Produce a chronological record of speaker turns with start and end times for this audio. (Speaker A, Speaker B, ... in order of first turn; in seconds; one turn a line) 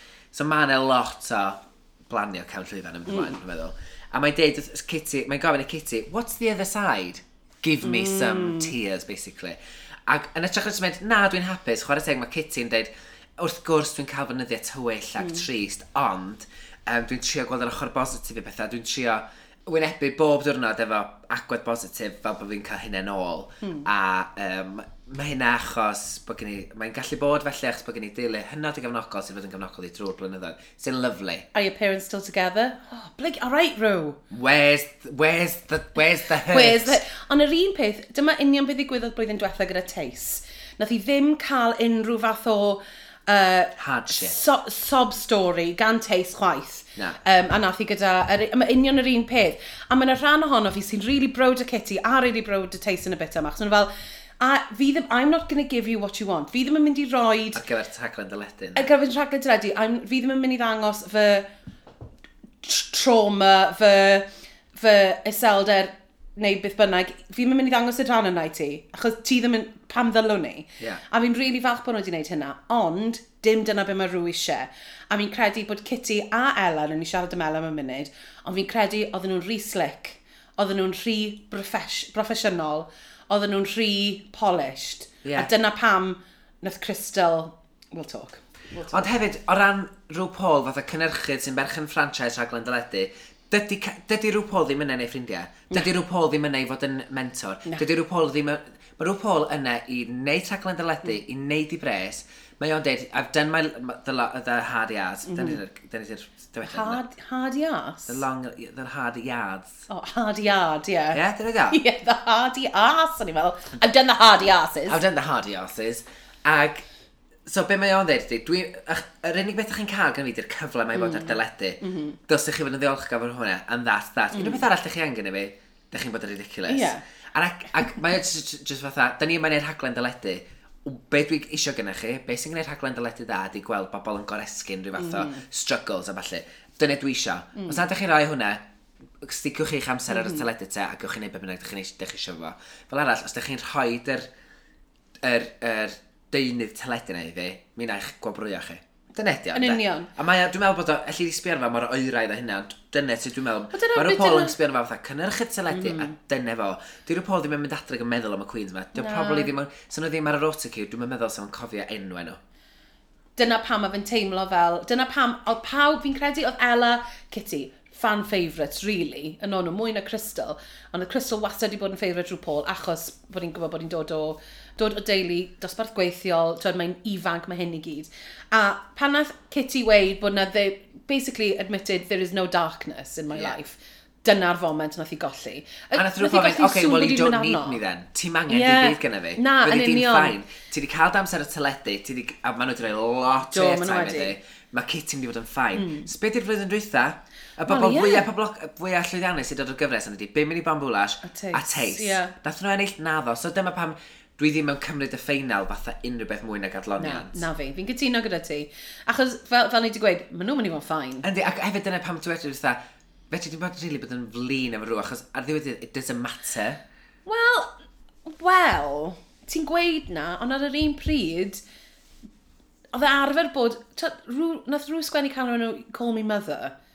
Speaker A: 0.3-31.5
Speaker B: 3.1-3.4
Speaker B: 7.8-8.7
Speaker B: 15.2-15.4
Speaker B: 31.5-34.2
Speaker A: 34.3-37.0
Speaker B: 36.5-57.6
Speaker A: 43.8-44.4
Speaker A: 57.5-58.9
Speaker B: 58.7-61.5
Speaker B: 62.6-89.1
Speaker A: 85.2-85.5
Speaker A: 88.9-107.0
Speaker B: 105.2-105.6
Speaker B: 106.6-108.2
Speaker A: 108.1-109.8
Speaker B: 109.9-115.0
Speaker A: 111.1-111.8
Speaker A: 114.9-116.8
Speaker A: 117.5-138.6
Speaker B: 120.9-122.2
Speaker B: 124.3-124.7
Speaker B: 126.7-127.0
Speaker B: 135.0-135.4
Speaker B: 137.5-137.8
Speaker A: 139.2-144.3
Speaker B: 140.1-140.4
Speaker A: 145.2-162.4
Speaker B: 149.5-150.1
Speaker B: 153.7-154.6
Speaker B: 155.7-156.2
Speaker B: 158.9-159.5
Speaker B: 163.4-187.8
Speaker A: 185.9-207.4
Speaker B: 188.5-190.3
Speaker B: 193.5-194.3
Speaker B: 195.7-196.1
Speaker B: 197.7-198.3
Speaker B: 201.2-202.3
Speaker B: 207.0-211.3
Speaker A: 211.2-212.8
Speaker A: 213.3-216.8
Speaker B: 217.2-217.7
Speaker B: 218.3-221.6
Speaker B: 222.9-226.7